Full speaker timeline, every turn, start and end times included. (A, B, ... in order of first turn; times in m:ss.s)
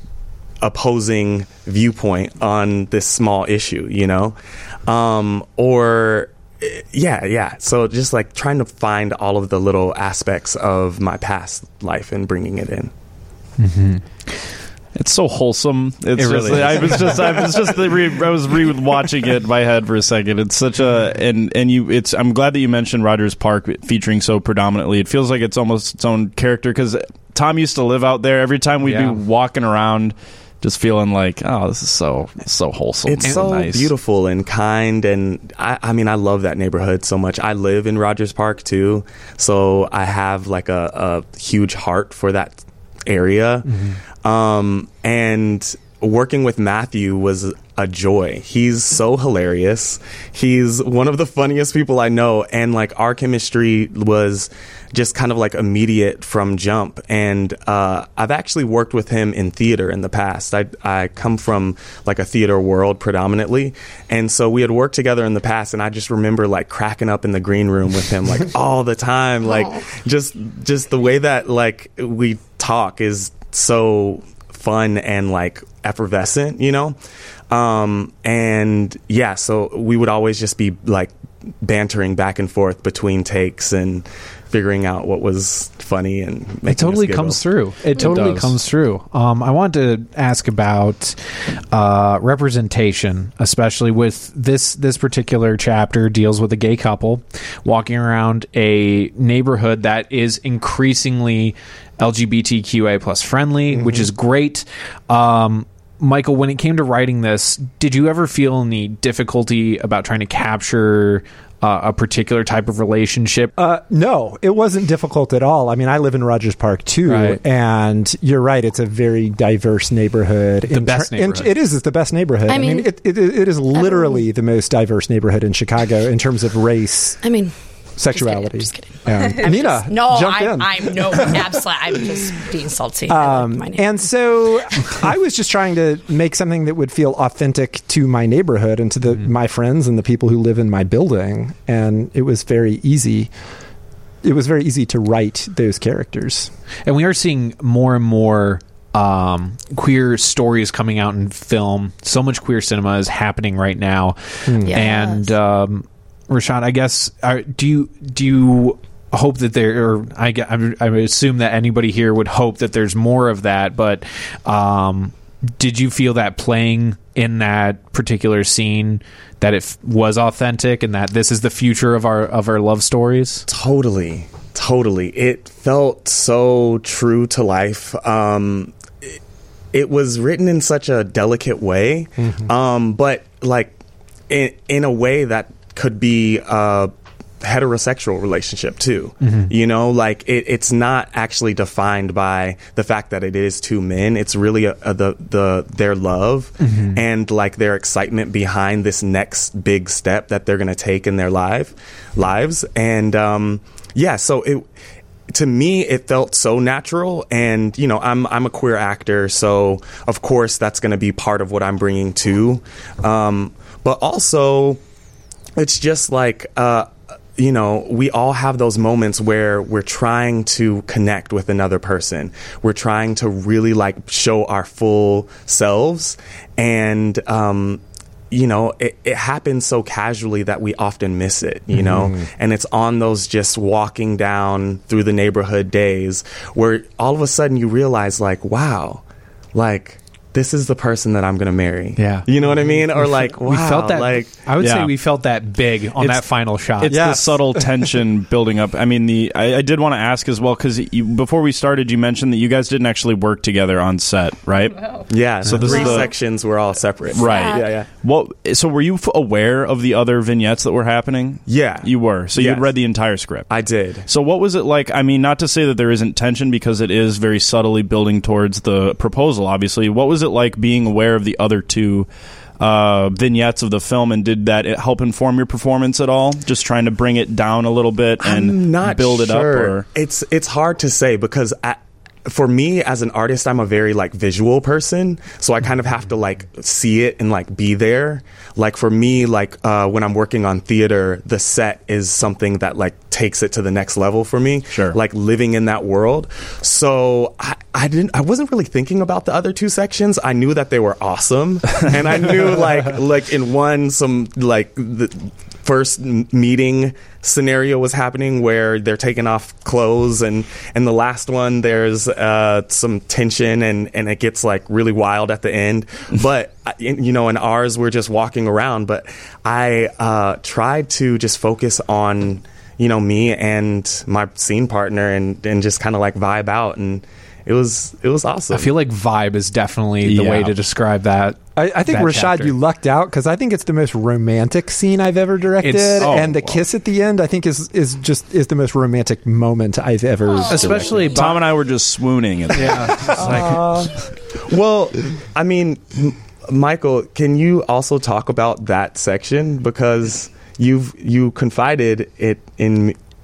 0:00.6-0:12.9 A
0:13.6-0:14.4 B
0:14.9-0:33.9 C
0:16.2-0:17.4 B
0:28.8-0:29.2 B
0:33.0-1:17.0 A
0:43.6-0:44.0 B
1:09.4-1:09.8 D
1:17.5-1:27.4 A
1:26.7-1:31.2 B
1:28.0-1:28.4 A
1:31.7-1:53.5 B
1:43.7-1:44.1 E
1:53.6-2:07.2 E
1:57.0-1:57.4 B
2:00.7-2:01.5 B
2:02.5-2:02.9 D
2:03.7-2:04.2 D
2:07.2-2:07.5 D
2:08.0-2:11.5 E
2:08.1-2:14.1 D
2:13.1-2:23.3 E
2:24.2-2:26.5 E
2:26.8-2:53.4 B
2:34.5-2:34.8 E
2:34.6-2:35.3 D
2:53.5-2:59.1 A
2:59.7-3:03.7 A
3:04.3-3:24.7 A
3:09.2-3:09.5 B
3:16.6-3:17.0 B
3:25.3-3:34.8 A
3:35.6-3:59.0 A
3:51.7-3:52.2 E
3:59.5-4:04.4 A
4:02.0-4:02.3 B
4:03.0-4:07.3 B
4:04.6-4:04.9 C
4:06.8-4:07.9 E
4:06.8-4:16.1 C
4:15.1-4:17.9 A
4:15.7-4:16.0 D
4:17.1-4:17.8 D
4:17.1-4:23.5 C
4:21.4-4:22.7 A
4:23.5-4:24.1 A
4:24.0-4:32.1 C
4:32.6-4:39.8 C
4:38.2-5:28.7 A
4:54.7-4:55.0 C
5:28.5-5:32.5 B
5:30.0-5:30.5 C
5:31.6-5:41.1 E
5:35.6-5:36.1 B
5:36.0-5:36.6 C
5:40.5-5:41.5 B
5:40.7-5:41.0 A
5:41.1-5:44.0 C
5:42.5-5:43.1 B
5:42.8-5:43.6 E
5:43.2-5:53.0 A